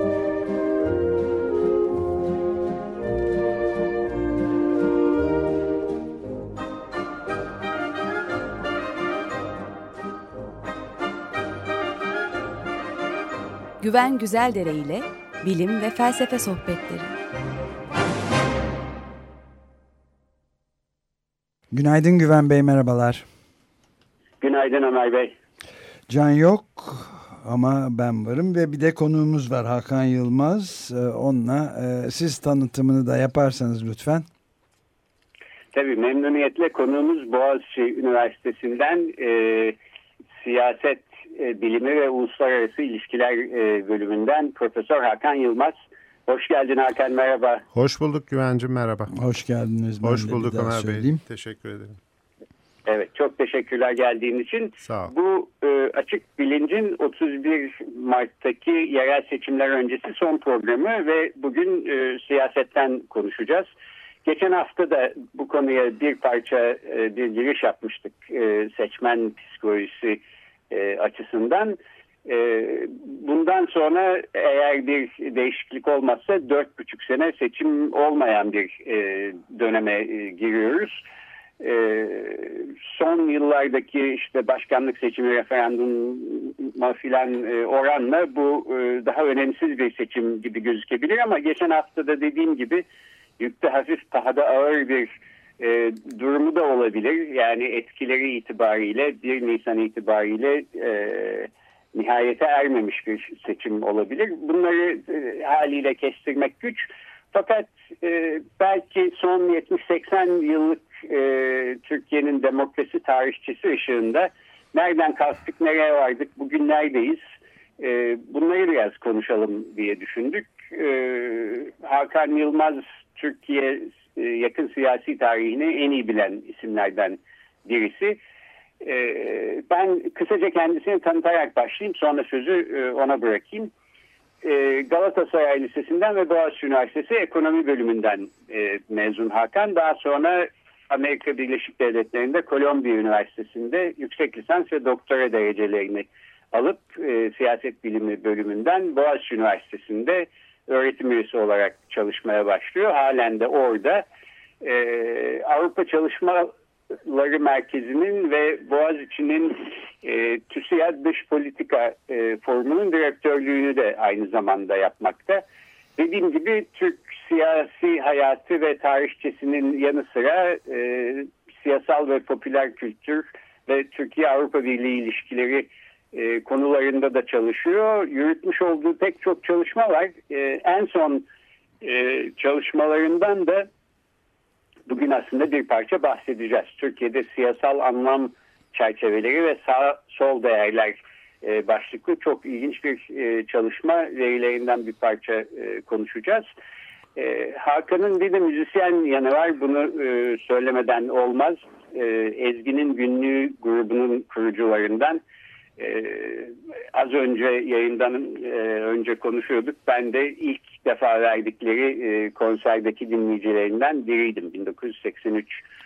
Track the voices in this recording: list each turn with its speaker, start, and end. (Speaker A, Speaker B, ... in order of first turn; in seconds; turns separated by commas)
Speaker A: 13.8-17.2, Speaker B: 21.7-23.3, Speaker C: 24.4-25.3, Speaker B: 26.1-34.3, Speaker C: 35.7-39.8, Speaker C: 40.4-45.8, Speaker C: 46.3-47.6, Speaker D: 47.7-49.1, Speaker B: 49.1-51.2, Speaker D: 50.0-52.0, Speaker C: 52.9-63.7, Speaker D: 54.9-55.1, Speaker C: 64.2-81.0, Speaker C: 81.6-92.8, Speaker C: 93.4-117.2, Speaker C: 117.8-128.2, Speaker C: 128.8-133.7, Speaker C: 134.4-154.1, Speaker C: 154.6-156.5, Speaker C: 157.1-165.4, Speaker C: 166.0-181.3, Speaker C: 181.8-183.7, Speaker C: 184.9-196.4, Speaker C: 197.2-205.2, Speaker C: 205.8-215.6